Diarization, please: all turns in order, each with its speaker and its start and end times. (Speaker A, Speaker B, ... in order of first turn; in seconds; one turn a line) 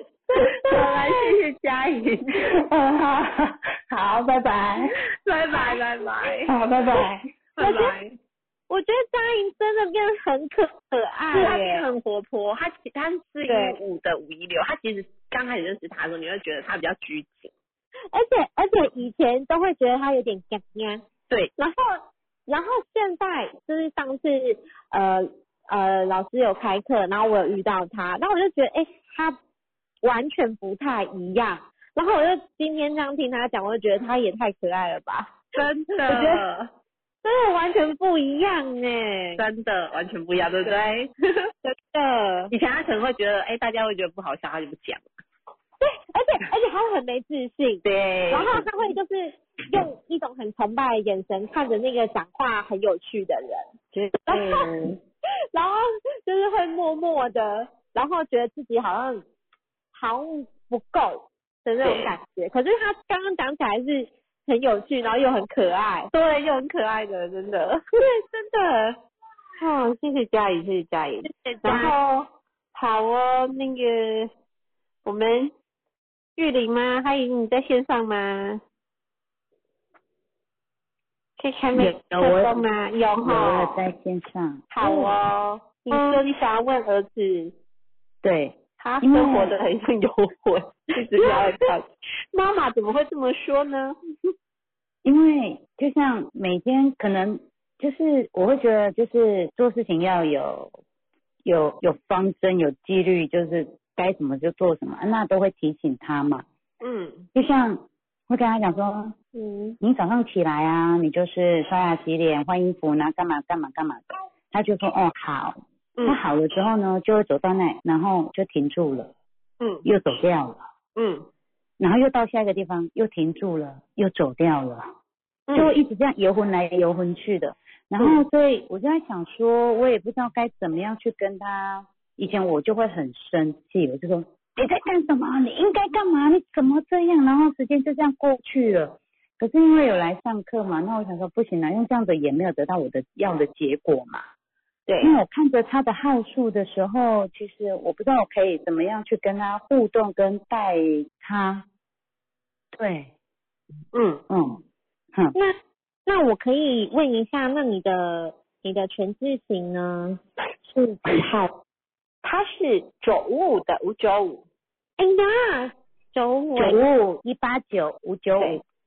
Speaker A: 0.3-2.5
Speaker B: 0.7-1.2
Speaker B: 2.5-8.1
Speaker A: 5.5-6.5
Speaker C: 7.6-7.9
Speaker C: 8.7-11.8
Speaker A: 11.3-17.5
Speaker C: 13.4-13.8
Speaker C: 18.1-21.0
Speaker A: 21.3-21.8
Speaker C: 22.5-29.4
Speaker C: 30.0-36.4
Speaker A: 35.6-36.7
Speaker C: 37.2-39.4
Speaker A: 39.4-41.1
Speaker C: 41.6-42.5
Speaker A: 42.5-45.1
Speaker C: 45.8-53.7
Speaker A: 47.8-48.7
Speaker A: 53.9-54.9
Speaker C: 54.3-54.7
Speaker C: 55.5-59.2
Speaker C: 59.9-66.1
Speaker A: 61.8-62.2
Speaker A: 66.1-68.9
Speaker A: 69.6-74.3
Speaker C: 71.3-72.0
Speaker A: 75.0-75.5
Speaker A: 76.4-78.6
Speaker A: 81.4-83.8
Speaker D: 81.8-82.6
Speaker D: 83.2-85.1
Speaker A: 84.7-87.5
Speaker D: 88.2-89.5
Speaker A: 88.8-94.0
Speaker D: 95.0-100.8
Speaker D: 101.5-106.5
Speaker A: 106.8-107.3
Speaker D: 107.3-109.2
Speaker C: 109.4-109.7
Speaker D: 109.8-119.1
Speaker D: 119.8-120.6
Speaker A: 121.0-121.3
Speaker D: 121.8-124.9
Speaker A: 125.5-125.7
Speaker D: 125.5-144.2
Speaker A: 144.9-145.1
Speaker D: 145.0-151.7
Speaker D: 152.8-153.1
Speaker A: 153.9-154.2
Speaker D: 154.3-154.6
Speaker C: 155.3-161.5
Speaker A: 162.2-164.4
Speaker C: 165.0-166.8
Speaker A: 166.6-166.8
Speaker D: 166.7-168.6